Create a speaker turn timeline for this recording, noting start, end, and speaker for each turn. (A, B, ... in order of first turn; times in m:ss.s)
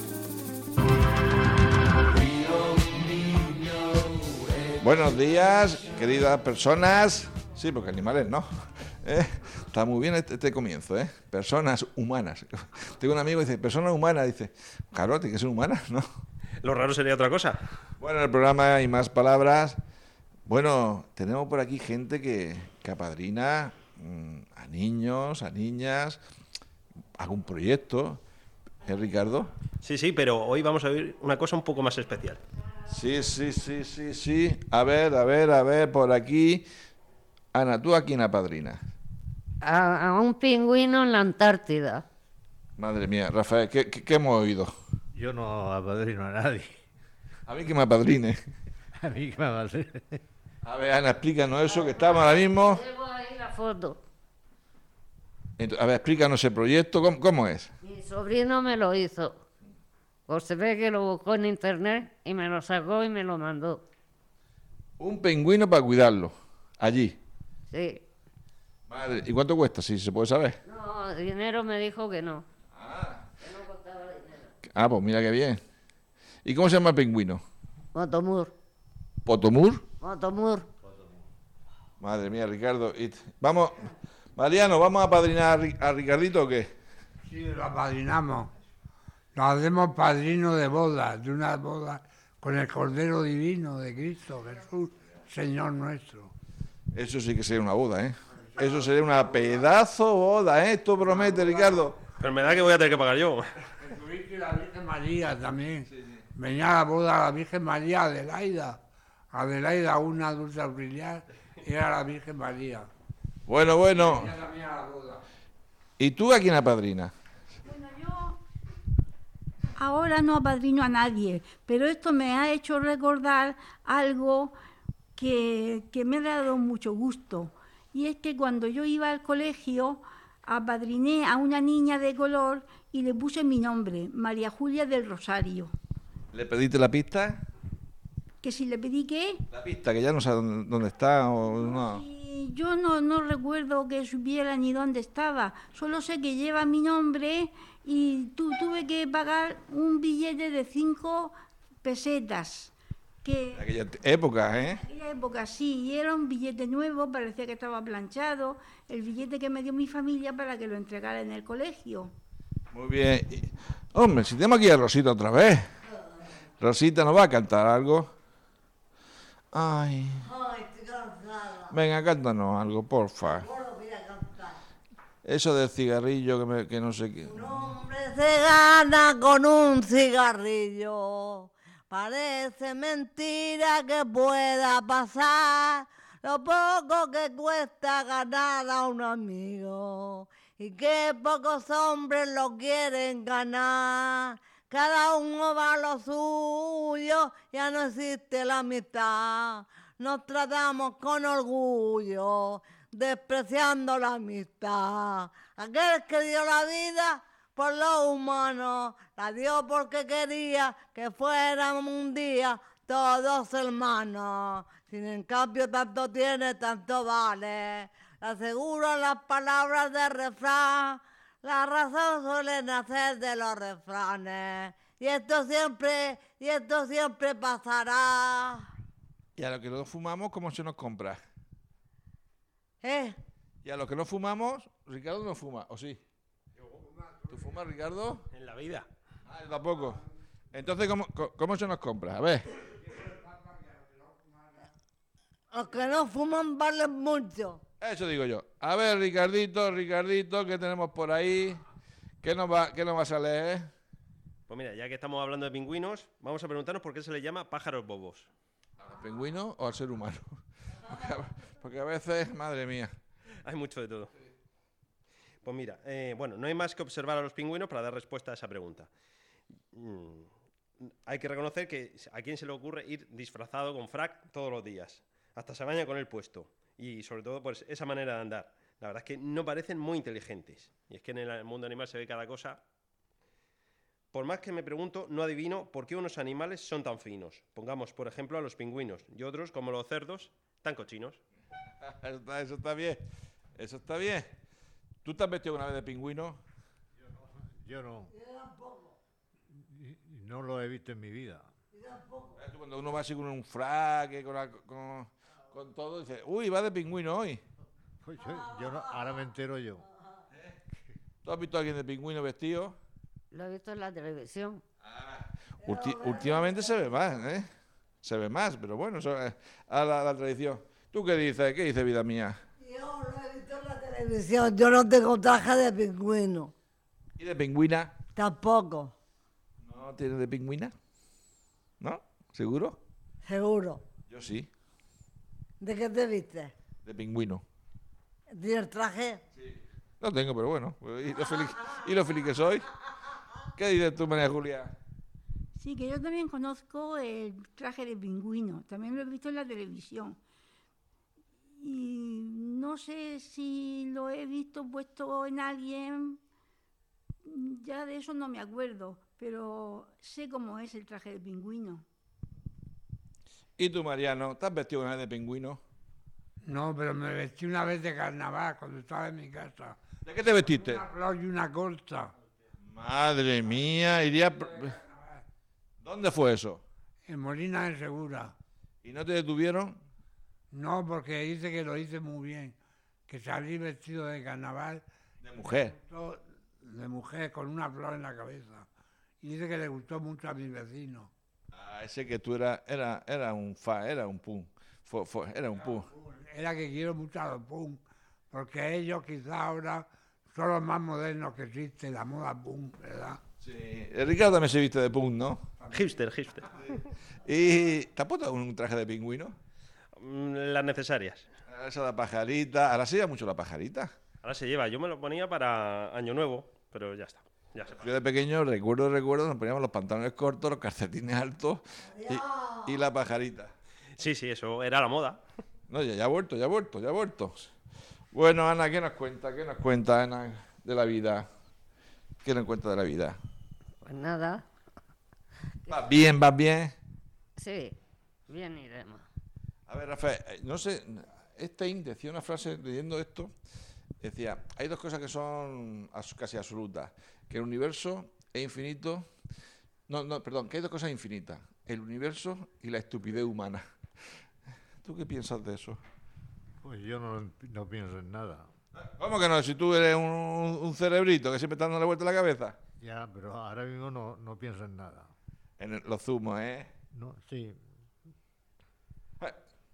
0:04.8-0:08.5 A
0:09.0-0:16.0 A
0:16.6-0:17.6 B
0:18.0-0:19.8 A
0:20.5-0:26.2 A
0:27.2-0:28.2 A
0:28.8-0:29.5 A
0:29.8-0:32.4 B
0:32.9-0:36.7 A
0:37.5-0:38.8 A
0:39.6-0:42.0 C
0:42.8-0:44.7 A
0:45.1-0:46.8 D
0:47.5-0:48.4 A
0:49.0-0:50.2 D
0:50.6-0:52.8 A
0:51.8-0:54.0 C
0:55.6-0:57.7 A
0:57.8-0:59.4 C
1:00.3-1:03.8 C
1:05.0-1:07.2 A
1:07.7-1:08.0 C
1:08.9-1:10.6 A
1:10.6-1:12.4 C
1:12.7-1:13.3 A
1:13.4-1:14.5 C
1:14.7-1:15.6 A
1:16.4-1:17.4 A
1:17.9-1:18.5 C
1:19.3-1:19.9 A
1:20.0-1:20.7 C
1:20.9-1:21.2 D
1:22.0-1:26.7 A
1:27.3-1:28.5 E
1:29.3-1:36.3 E
1:36.9-1:42.0 A
1:41.0-1:41.8 E
1:42.2-1:43.4 B
1:43.8-1:48.8 E
1:45.9-1:46.2 A
1:49.3-1:52.9 E
1:53.5-1:54.3 A
1:53.9-1:55.2 E
1:56.0-1:57.1 A
1:57.6-1:58.4 F
1:59.8-2:04.6 F
2:05.2-2:15.7 F
2:16.3-2:17.4 A
2:18.4-2:19.4 F
2:19.5-2:22.0 A
2:21.5-2:33.7 F
2:33.6-2:34.8 A
2:34.8-2:42.1 F
2:42.7-2:45.7 A
2:46.6-2:48.1 A
2:49.5-2:50.3 A
2:50.2-2:51.7 G
2:51.7-2:53.5 A
2:53.2-2:54.6 G
2:55.2-2:57.5 A
2:57.2-3:48.7 G
3:49.4-3:51.2 A
3:52.8-3:53.2 G
3:53.6-3:56.0 A
3:57.3-3:58.3 A
3:58.3-3:58.9 B
3:59.3-4:02.6 A
4:03.0-4:04.5 E
4:05.5-4:07.6 G
4:07.8-4:11.6 A
4:12.2-4:13.7 A
4:14.5-4:18.3 B
4:18.8-4:22.9 A
4:23.4-4:24.1 B
4:25.4-4:28.9 B
4:29.7-4:30.3 B
4:30.8-4:42.6 B
4:44.1-4:51.2 B
4:51.8-4:53.0 A
4:53.6-4:54.3 A
4:55.0-4:56.4 A
4:57.1-4:58.1 D
4:58.1-4:59.0 G
4:59.5-5:01.5 D
5:01.7-5:02.4 G
5:02.4-5:07.4 A
5:08.0-5:09.9 D
5:11.2-5:12.8 A
5:13.3-5:14.6 C
5:14.8-5:17.5 A
5:15.6-5:16.7 G
5:18.0-5:22.4 A
5:22.6-5:26.5 G
5:27.2-5:27.9 A
5:28.2-5:28.9 G
5:29.6-5:30.7 A
5:31.8-5:32.8 A
5:33.2-5:33.8 G
5:34.1-5:34.5 A
5:35.6-5:36.5 G
5:36.8-5:37.4 A
5:38.3-5:39.2 G
5:39.4-5:42.7 A
5:43.6-5:44.7 A
5:45.6-5:50.2 F
5:51.6-5:56.2 F
5:57.2-6:01.8 F
6:03.6-6:05.6 A
6:06.4-6:09.8 E
6:10.0-6:10.8 A
6:10.4-6:12.1 E
6:12.6-6:14.8 A
6:14.5-6:15.2 E
6:15.8-6:16.6 A
6:17.0-6:18.3 E
6:18.8-6:19.8 A
6:20.5-6:22.6 E
6:23.1-6:24.8 E
6:25.2-6:25.8 A
6:25.8-6:28.7 E
6:29.2-6:31.1 E
6:31.5-6:35.9 A
6:35.7-6:43.2 E
6:43.4-6:45.4 A
6:45.7-6:46.8 B
6:47.2-6:49.4 A
6:50.0-6:51.3 B
6:51.5-6:53.9 A
6:54.2-6:57.8 B
6:57.8-7:03.5 A
7:01.8-7:02.8 G
7:04.0-7:05.2 B
7:05.7-7:07.5 A
7:08.1-7:11.3 A
7:12.2-7:13.2 A
7:13.8-7:14.4 C
7:15.7-7:16.7 A
7:17.4-7:17.8 C
7:18.3-7:19.0 C
7:19.7-7:23.3 A
7:24.0-7:29.1 A
7:29.9-7:33.6 A
7:34.8-7:35.8 A
7:36.6-7:38.5 D
7:38.8-7:42.6 A
7:42.8-7:45.1 D
7:45.6-7:46.7 A
7:46.9-7:47.6 D